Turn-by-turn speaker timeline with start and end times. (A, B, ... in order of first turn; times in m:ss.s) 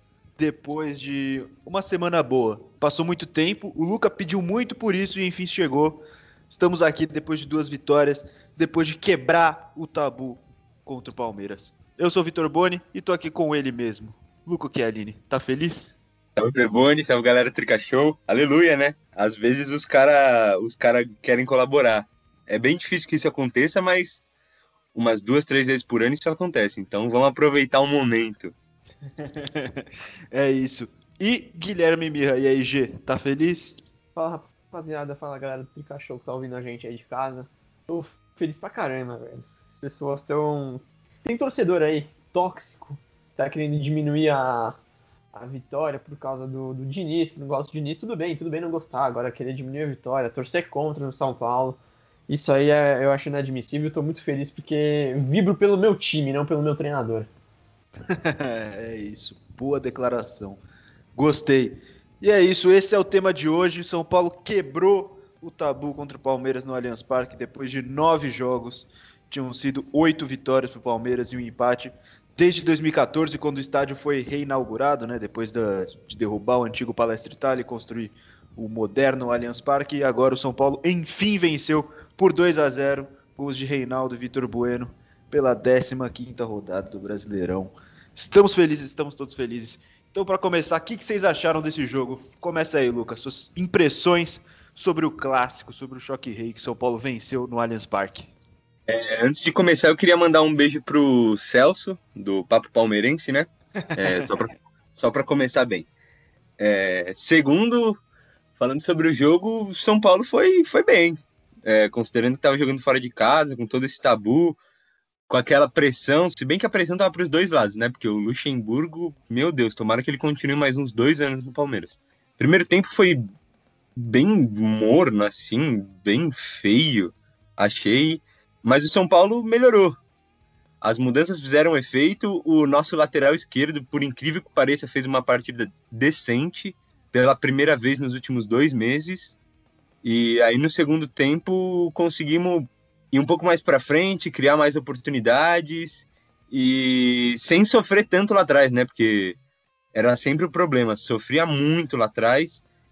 0:00.4-0:16.0 A
0:16.4-0:24.2 B
0:24.9-0:28.5 B
0:29.2-0:33.8 A
0:34.2-0:44.8 C
0:45.3-0:57.3 C
0:58.1-1:00.6 A
1:01.2-1:38.3 A
1:38.9-1:45.9 B
1:44.0-1:44.3 A
1:46.6-1:48.0 B
1:48.6-1:54.6 B
1:55.3-2:03.2 B
2:04.0-2:10.0 B
2:10.8-2:19.4 B
2:20.0-2:29.4 B
2:29.9-2:32.6 B